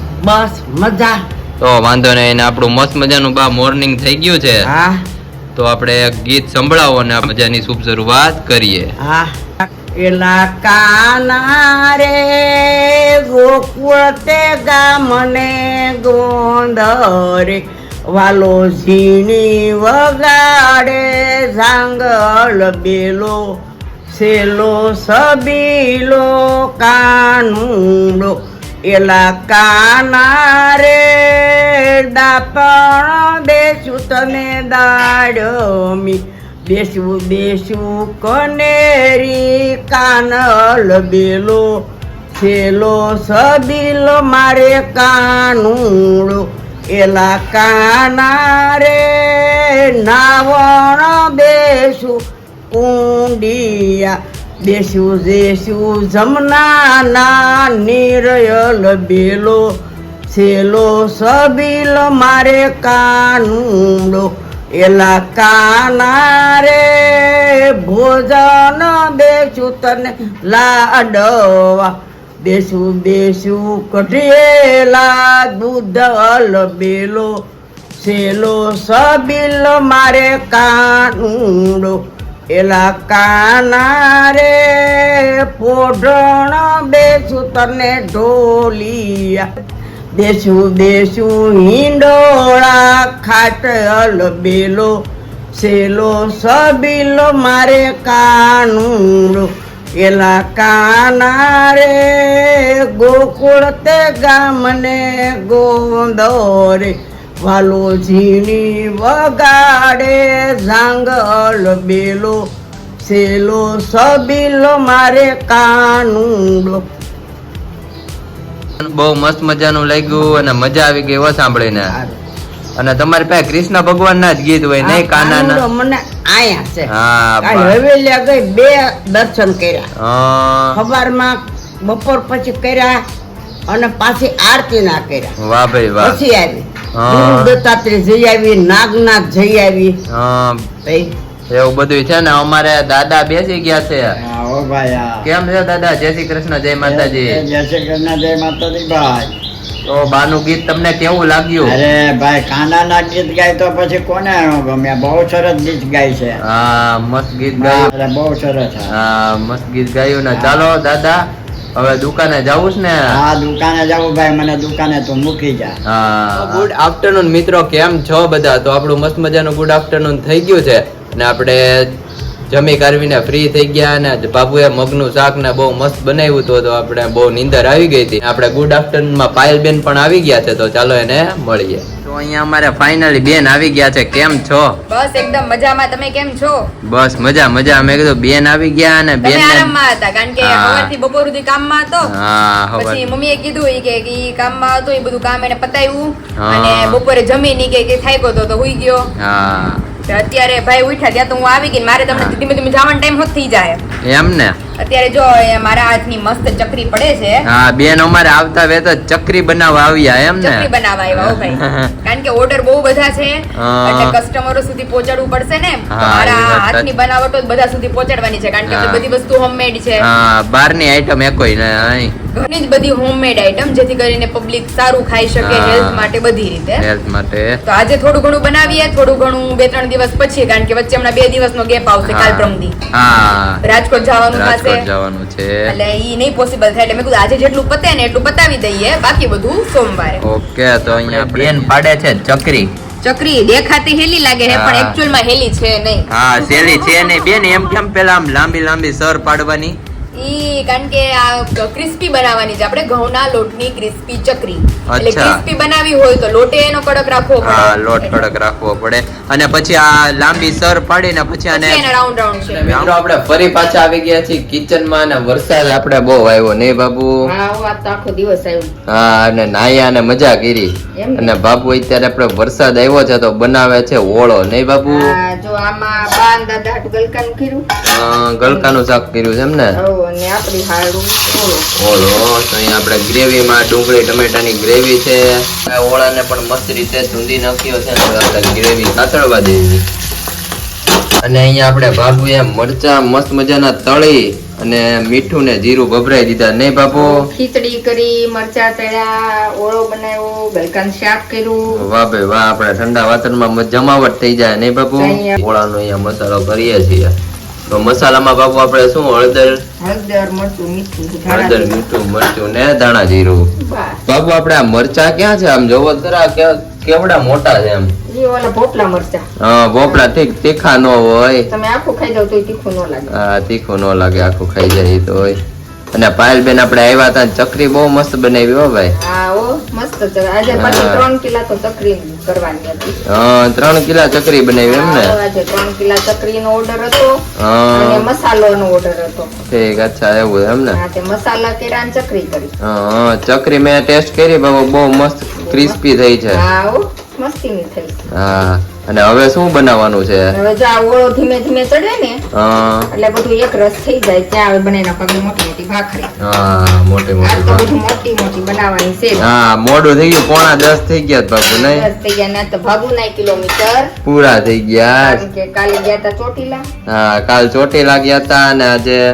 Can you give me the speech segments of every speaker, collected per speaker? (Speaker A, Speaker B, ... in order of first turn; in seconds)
Speaker A: 0.2-1.2, 4.6-5.0, 9.0-23.6, 24.1-59.8, 60.3-77.4, 78.0-82.0, 82.5-89.5, 90.2-95.0, 95.5-112.5, 113.0-116.8, 124.8-129.9, 130.7-133.0, 133.7-135.3, 136.0-140.0, 140.8-141.1
Speaker B: 1.6-4.7, 5.5-8.9, 118.8-121.9, 122.8-125.6, 126.9-127.8, 130.0-130.8, 135.4-136.2, 136.9-137.5, 140.1-140.7, 141.5-144.2, 145.2-147.4, 149.8-151.7, 156.4-157.9, 158.9-161.2, 161.8-163.2, 165.9-171.8, 172.5-184.8, 186.8-189.7, 190.4-190.9, 192.0-193.1, 196.4-197.0, 199.2-199.8, 202.1-202.4, 204.0-204.6, 207.4-211.9, 213.6-214.2, 215.9-216.9, 218.7-219.0, 220.0-222.1, 225.4-226.1, 226.8-227.6, 232.0-233.6, 234.3-235.7, 240.2-242.7, 244.5-245.0, 246.1-249.8, 254.9-255.4, 257.4-261.9, 262.5-267.1, 268.9-275.1, 277.9-279.8, 281.8-289.8, 291.2-297.2, 301.7-307.1, 307.7-309.6, 311.3-313.5, 314.1-317.9, 319.4-321.5, 323.1-325.4, 325.9-328.9, 330.5-331.0, 333.1-335.2, 337.4-338.1, 339.5-340.8, 342.6-346.4, 348.1-350.3, 352.3-352.9, 356.2-357.7, 359.1-361.9, 364.0-365.2, 366.9-369.0
Speaker C: 144.2-145.3, 146.8-149.3, 151.6-156.4, 157.6-158.9, 160.3-160.7, 163.1-165.8, 166.4-166.6
Speaker D: 184.9-186.6, 189.2-192.1, 192.8-199.1, 200.1-203.8, 204.8-207.4, 210.4-220.1, 222.3-226.8, 227.6-232.7, 233.6-234.8, 235.7-240.2, 243.0-247.2, 250.2-258.0, 261.5-262.9
Speaker E: 267.3-268.7, 271.0-271.4, 274.9-277.6, 279.8-281.6, 296.9-301.8, 305.0-305.4, 309.8-311.8, 313.6-314.0, 318.1-319.3, 319.8-320.1, 321.5-323.1, 328.9-333.0, 334.6-337.2, 337.7-339.3, 340.7-342.5, 345.4-348.0, 350.3-352.2, 352.9-356.1, 357.2-359.2, 361.5-363.9, 365.0-366.6